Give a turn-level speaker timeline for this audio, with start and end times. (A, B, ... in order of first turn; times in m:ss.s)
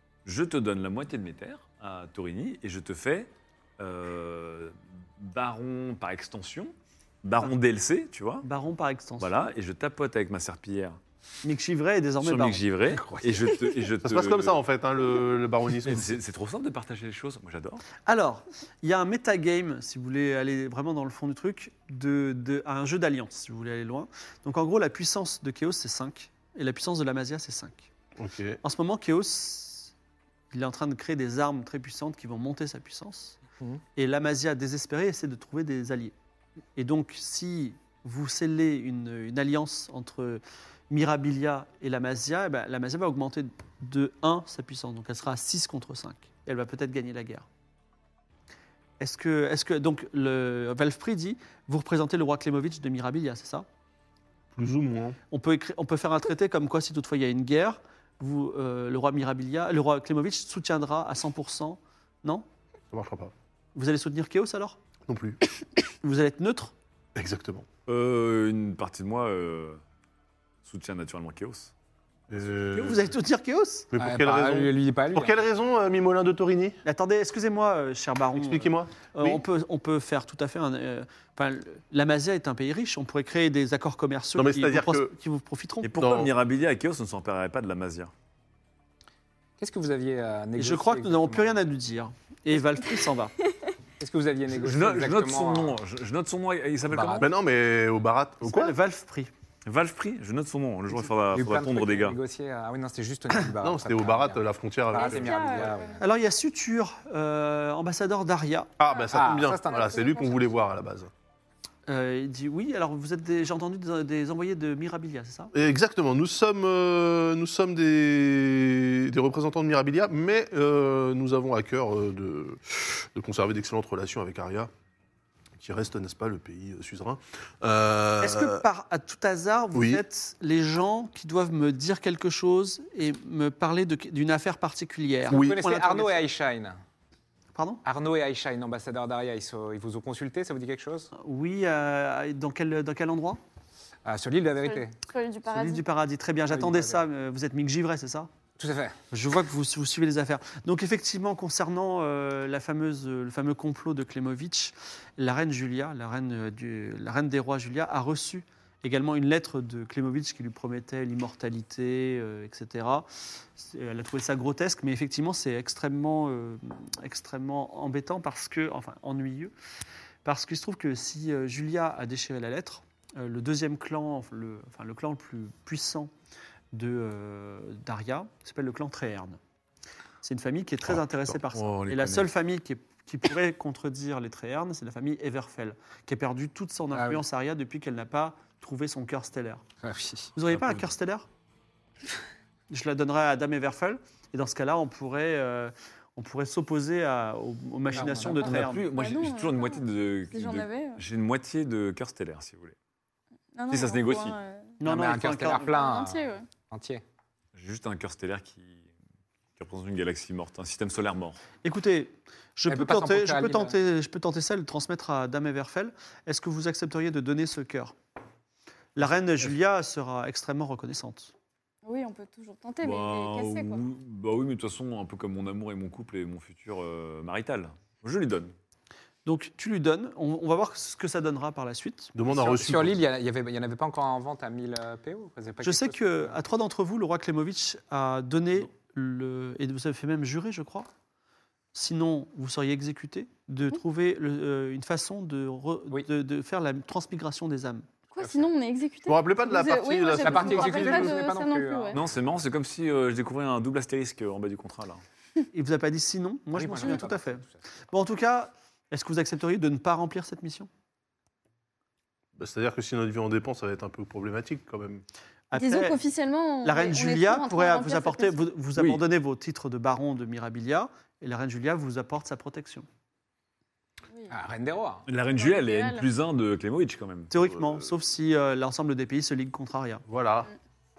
0:00.2-0:08.4 A
0:08.4-0:09.4 B
0:09.2-0:11.0 A
0:11.4-0:12.6 B
0:12.2-0:14.6 A
0:12.9-0:13.6 C
0:14.0-0:16.2 D
0:15.8-0:17.8 A
0:18.0-0:27.9 B
0:28.2-0:28.6 D
0:28.6-0:29.9 B
0:30.5-0:33.4 B
0:34.0-0:36.1 B
0:36.8-0:47.4 B
0:49.0-0:53.6 B
0:54.5-0:55.2 D
0:55.3-1:02.4 B
1:02.9-1:03.3 D
1:03.7-1:04.8 B
1:05.1-1:05.4 D
1:06.0-1:06.7 B
1:07.2-1:07.6 D
1:07.9-1:09.8 A
1:10.6-1:11.7 A
1:12.3-1:13.0 D
1:12.7-1:13.9 B
1:13.9-1:16.8 D
1:14.0-1:15.4 C
1:16.8-1:25.9 B
1:18.4-1:19.4 D
1:24.4-1:25.1 D
1:25.8-1:28.1 A
1:26.0-1:26.3 D
1:29.6-1:31.6 C
1:30.6-1:33.3 B
1:34.0-1:35.8 C
1:34.6-1:37.3 A
1:36.9-1:37.3 C
1:37.2-1:38.8 D
1:38.4-1:39.3 B
1:39.6-1:42.2 A
1:41.3-1:46.0 C
1:43.6-1:45.7 D
1:44.9-1:46.0 E
1:46.0-1:48.7 B
1:48.8-1:51.1 D
1:48.9-1:50.5 E
1:49.1-1:50.1 C
1:51.9-1:55.5 B
1:55.5-2:04.7 D
2:05.6-2:08.6 D
2:08.2-2:16.2 B
2:09.7-2:10.0 D
2:15.2-2:16.8 C
2:15.3-2:15.6 D
2:17.5-2:17.8 B
2:17.8-2:21.1 C
2:21.1-2:23.4 B
2:24.0-2:24.9 C
2:24.6-2:25.8 E
2:25.5-2:28.3 B
2:26.5-2:27.0 C
2:28.6-2:29.0 C
2:29.1-2:49.5 B
2:50.2-2:56.1 B
2:56.7-2:59.4 B
3:00.2-3:09.6 B
3:01.5-3:02.3 A
3:06.9-3:07.2 C
3:09.8-3:10.3 C
3:10.4-3:11.3 B
3:10.5-3:10.9 A
3:12.7-3:18.8 B
3:17.9-3:18.7 C
3:17.9-3:22.7 A
3:18.9-3:21.0 E
3:23.5-3:24.8 E
3:23.7-3:24.4 A
3:24.8-3:25.7 B
3:24.8-3:27.0 C
3:25.6-3:26.4 E
3:27.5-3:28.8 A
3:29.6-3:31.4 A
3:31.6-3:37.9 B
3:32.7-3:33.7 C
3:38.9-3:41.3 B
3:41.8-3:43.8 E
3:42.8-3:48.5 A
3:49.2-3:52.5 B
3:52.1-3:53.0 D
3:52.3-3:56.4 C
3:55.6-4:00.9 B
4:01.7-4:07.9 B
4:08.1-4:12.0 E
4:08.2-4:08.5 C
4:09.1-4:11.2 D
4:10.0-4:12.0 C
4:11.9-4:15.0 A
4:15.5-4:20.7 B
4:16.5-4:17.6 C
4:22.4-4:25.0 D
4:25.5-4:26.0 B
4:25.5-4:28.4 E
4:26.6-4:32.8 B
4:28.8-4:29.0 A
4:34.3-4:35.0 C
4:35.1-4:37.6 A
4:35.4-4:36.1 E
4:37.3-4:40.0 B
4:40.1-4:40.5 D